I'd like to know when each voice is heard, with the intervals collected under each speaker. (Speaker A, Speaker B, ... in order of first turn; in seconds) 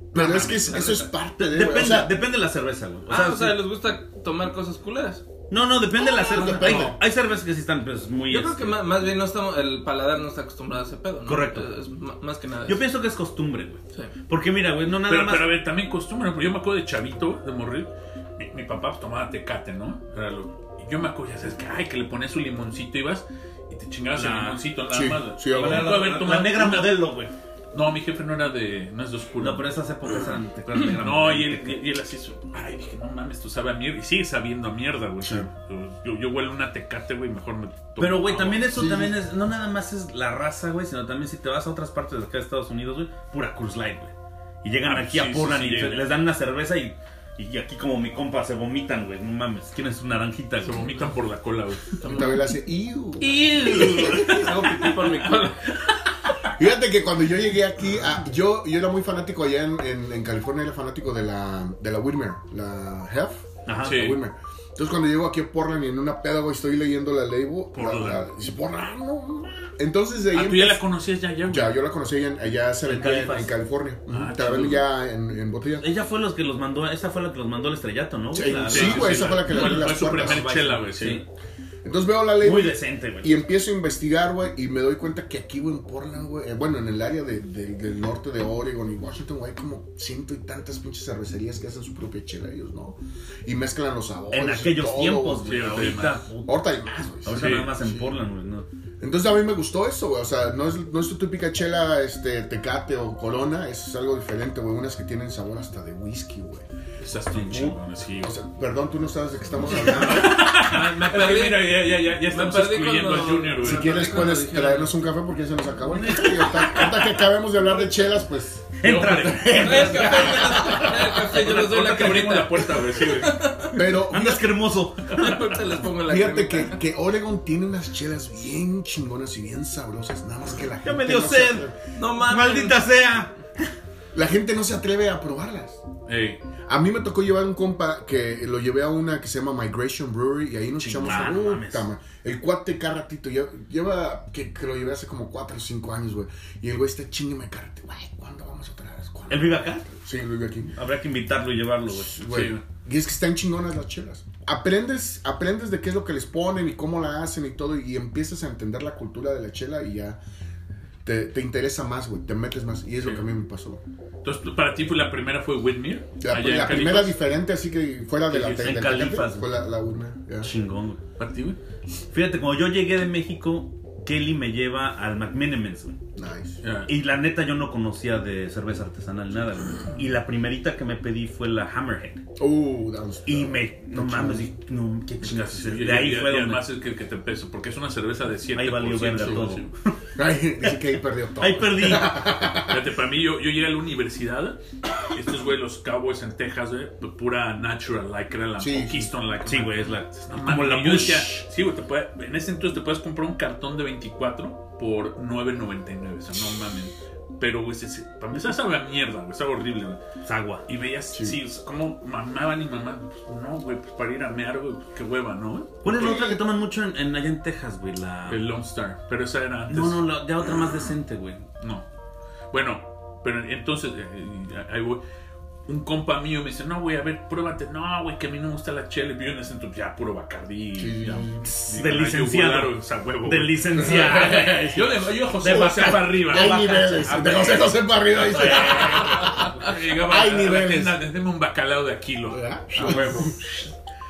Speaker A: 0.1-2.1, 6.0-7.0, 24.9-26.1, 35.2-35.5, 38.8-39.2, 52.0-54.5, 56.5-70.9, 71.5-75.9, 78.3-80.6, 81.8-98.2, 99.0-106.7, 108.2-110.5, 113.6-118.7, 120.0-121.0, 123.7-124.8, 126.0-131.7, 134.1-135.8, 136.7-150.8, 151.9-160.2, 161.1-163.8, 166.2-170.5, 176.2-176.6, 182.4-184.5, 190.2-192.9, 198.6-199.1, 211.1-211.4, 215.9-216.4, 230.8-231.4, 233.8-241.0, 242.3-243.4
Speaker B: 0.1-0.7, 15.1-27.1, 27.7-29.7, 30.8-38.8, 44.8-46.1, 50.6-52.1, 63.8-64.2, 67.7-68.2, 70.3-71.8, 74.1-74.9, 78.7-81.2, 95.4-96.3, 97.3-97.8, 107.0-108.4, 109.7-114.2, 118.8-120.3, 121.2-123.6, 136.1-136.4, 140.8-141.4, 152.3-152.6, 163.0-163.3, 164.2-167.2, 168.3-168.9, 171.2-171.6, 176.6-176.9, 185.2-189.7, 192.7-210.0, 210.7-215.9, 218.3-220.1, 221.6-221.8, 222.5-225.0, 225.7-236.6, 238.8-243.3
Speaker C: 0.2-1.1, 3.1-5.2, 6.4-6.9, 8.3-12.8, 53.2-55.7, 110.1-114.9, 119.5-123.8, 125.1-126.8, 132.0-132.9
Speaker D: 1.4-3.6, 5.5-8.8, 11.2-11.7, 12.7-15.5, 24.1-24.6, 25.5-27.3, 29.4-31.8, 38.0-51.0, 53.5-54.4, 63.7-64.0, 72.8-73.5, 75.8-81.2, 82.4-83.4, 94.3-96.6, 97.2-98.7, 107.3-107.8, 115.9-117.1, 118.8-121.0, 123.9-125.5, 130.8-133.7, 141.0-141.8, 149.3-149.9, 150.8-152.2, 168.6-169.5, 170.4-171.0, 172.1-176.0, 176.9-182.2, 183.3-186.6, 188.6-190.0, 191.4-192.3, 199.5-201.5, 210.2-210.7, 215.8-218.4, 219.7-221.5, 231.4-234.8, 235.4-239.4, 242.7-243.4